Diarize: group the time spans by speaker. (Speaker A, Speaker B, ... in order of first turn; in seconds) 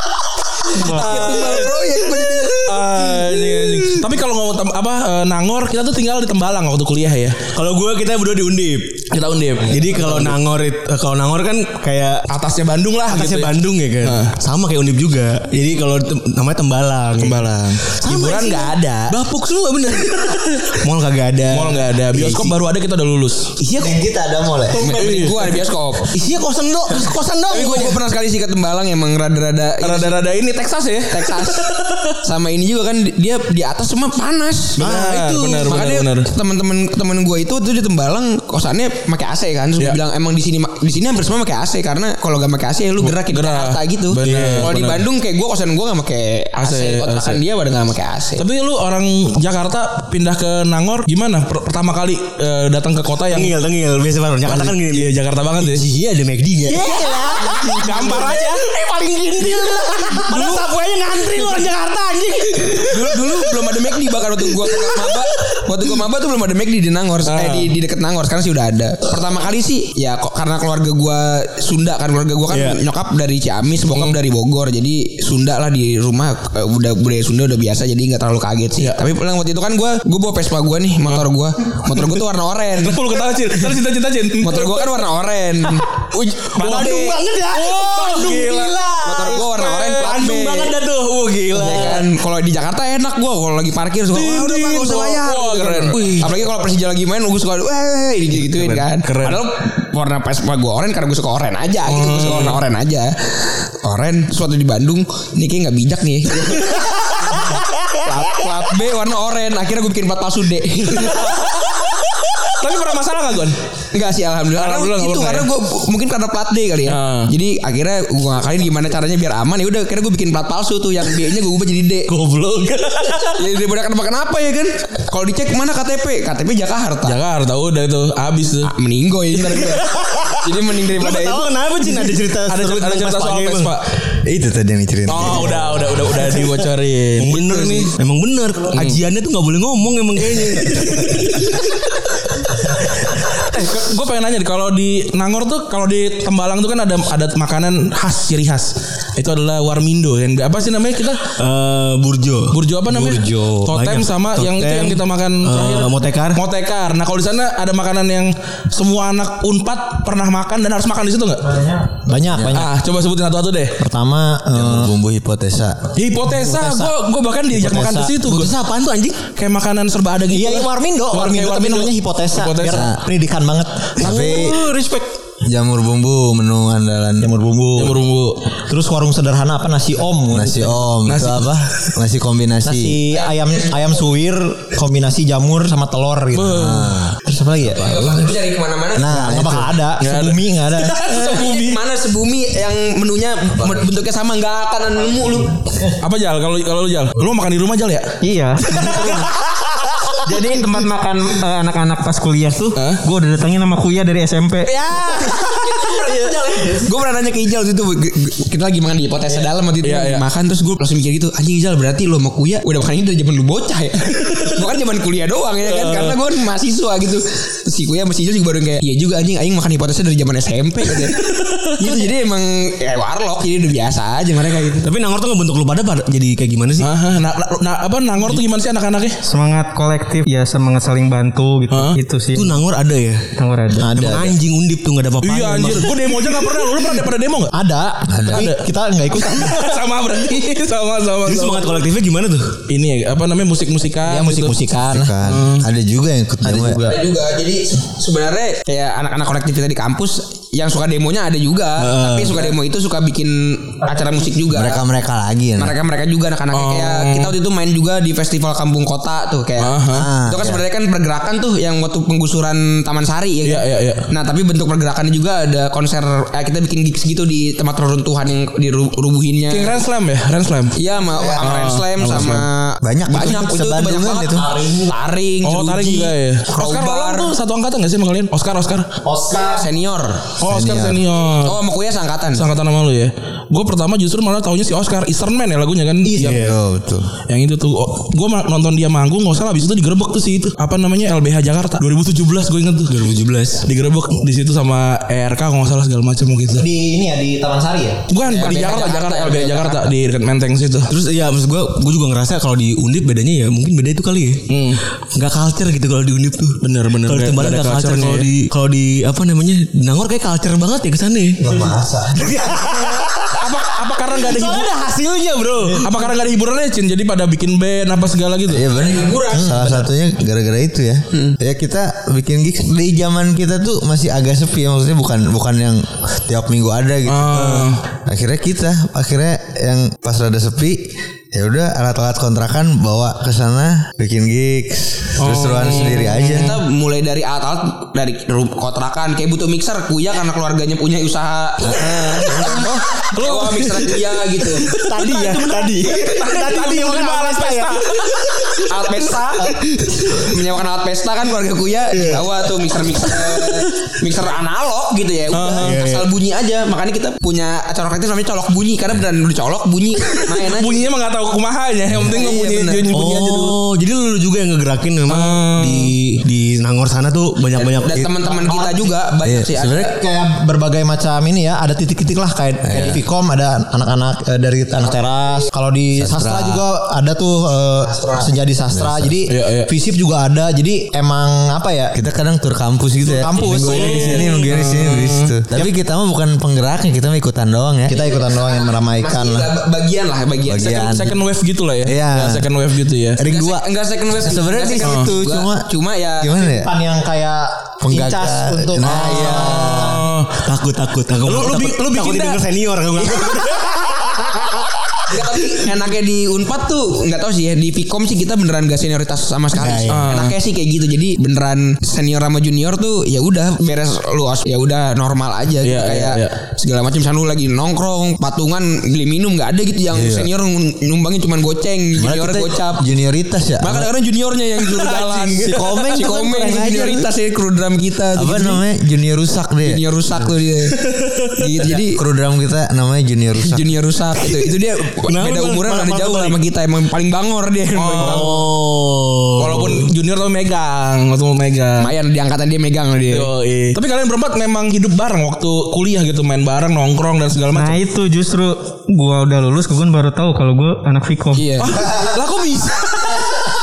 Speaker A: 0.6-4.0, 24.8-26.1, 27.5-30.2, 31.1-31.7, 32.2-34.8, 35.6-48.4, 62.9-83.0, 84.4-86.0, 86.6-87.2, 89.0-90.8, 91.5-111.5, 113.9-122.1, 123.4-127.2, 128.6-131.5, 187.7-189.6, 191.0-195.9, 204.7-221.2, 221.8-224.9, 246.8-254.8, 255.6-269.8, 270.8-277.3, 279.3-280.3, 281.4-282.4, 298.2-299.9, 318.7-319.9, 336.3-344.7, 348.7-360.9, 361.9-362.9, 367.5-369.9, 377.8-378.3, 383.3-384.4, 387.9-391.1, 393.2-396.4, 405.1-422.9, 423.6-428.6, 429.6-430.8, 431.4-432.0, 433.4-438.4, 441.8-443.3, 451.3-451.9
Speaker B: 0.8-1.7, 2.7-7.4, 9.1-10.3, 12.3-14.3, 17.2-19.1, 21.5-23.5, 24.9-25.4, 29.8-32.1, 34.8-36.3, 43.0-45.0, 46.6-47.4, 48.4-53.5, 54.4-55.8, 57.5-58.6, 67.2-67.7, 82.8-85.0, 86.6-87.0, 87.5-88.7, 91.6-92.0, 94.1-96.1, 98.4-99.4, 101.8-102.6, 111.0-111.4, 112.5-113.5, 114.5-115.5, 116.8-117.3, 127.0-128.7, 132.3-133.9, 135.1-137.9, 138.7-139.0, 140.3-141.6, 143.0-151.3, 152.5-161.6, 162.5-163.8, 165.9-168.5, 169.3-172.9, 177.8-178.4, 181.1-181.6, 186.3-187.0, 190.0-191.8, 196.0-198.1, 198.8-199.2, 209.8-210.2, 215.6-216.2, 226.8-229.2, 235.2-237.5, 238.3-238.6, 239.2-241.8, 242.7-244.5, 245.2-245.7, 256.5-257.3, 259.6-260.1, 263.4-264.0, 269.5-270.7, 271.4-272.5, 275.4-278.9, 280.4-281.6, 282.3-286.4, 287.3-293.0, 293.6-296.6, 298.1-300.9, 304.5-304.8, 306.6-308.3, 313.3-314.8, 315.8-318.7, 327.1-327.8, 335.2-336.6, 343.1-344.0, 344.7-348.3, 355.3-355.8, 360.4-363.6, 365.1-365.9, 379.3-379.7, 383.4-385.3, 390.7-393.2, 394.8-395.1, 398.8-400.4, 401.2-402.4, 409.9-410.3, 415.6-416.3, 424.9-426.0, 437.7-438.4, 439.4-441.9, 443.1-447.8, 451.6-453.2
Speaker C: 7.5-9.0, 9.6-12.2, 13.1-22.5, 23.6-24.0, 24.7-25.3, 26.1-28.0, 34.8-35.8, 44.2-44.8, 53.3-63.7, 64.5-65.2, 72.5-72.8, 86.1-92.1, 95.9-96.3, 122.1-123.3, 129.4-133.8, 136.0-136.7, 137.2-141.6, 151.4-152.6, 153.7-156.4, 168.2-169.2, 174.1-174.6, 224.8-226.9, 232.3-233.3, 233.9-236.0, 241.2-242.6, 251.8-252.5, 286.1-286.6, 292.9-293.6, 300.9-304.4, 305.1-311.7, 312.2-313.4, 314.2-315.9, 327.4-327.7, 344.7-348.6, 351.9-352.3, 353.2-353.6, 355.6-356.1, 362.9-368.1, 400.4-404.5, 409.5-410.1, 430.8-431.4, 434.2-434.5, 435.0-436.4, 437.9-439.9
Speaker D: 23.8-24.9, 162.1-162.7, 163.8-164.9, 166.4-166.9, 167.5-168.2, 170.3-174.3, 177.2-178.0, 178.7-180.8, 182.6-188.2, 188.9-191.0, 233.8-234.3, 237.5-239.7, 244.0-245.1, 246.4-246.9, 279.1-279.4, 296.6-298.0, 369.9-381.9, 383.0-384.2, 387.9-389.5, 396.4-400.1, 425.4-427.1
Speaker E: 134.2-135.9, 164.5-165.8, 174.0-174.6, 175.4-177.3, 180.3-183.0, 238.1-238.5, 244.9-247.0, 254.5-255.7, 260.0-260.6, 272.8-274.4, 280.5-281.0, 286.2-287.1, 311.4-312.5, 318.5-327.5, 328.1-336.6, 341.7-342.7, 369.2-369.9, 372.6-373.0, 376.0-376.6, 378.7-379.1, 381.9-388.0, 390.4-391.1, 391.9-392.3, 393.2-393.6, 394.2-395.7, 396.2-396.7, 397.8-399.9, 419.9-420.3, 422.0-423.9, 428.2-429.8, 431.8-433.6
Speaker F: 198.2-199.3, 200.2-204.7, 229.2-232.6, 233.4-233.9, 447.5-451.4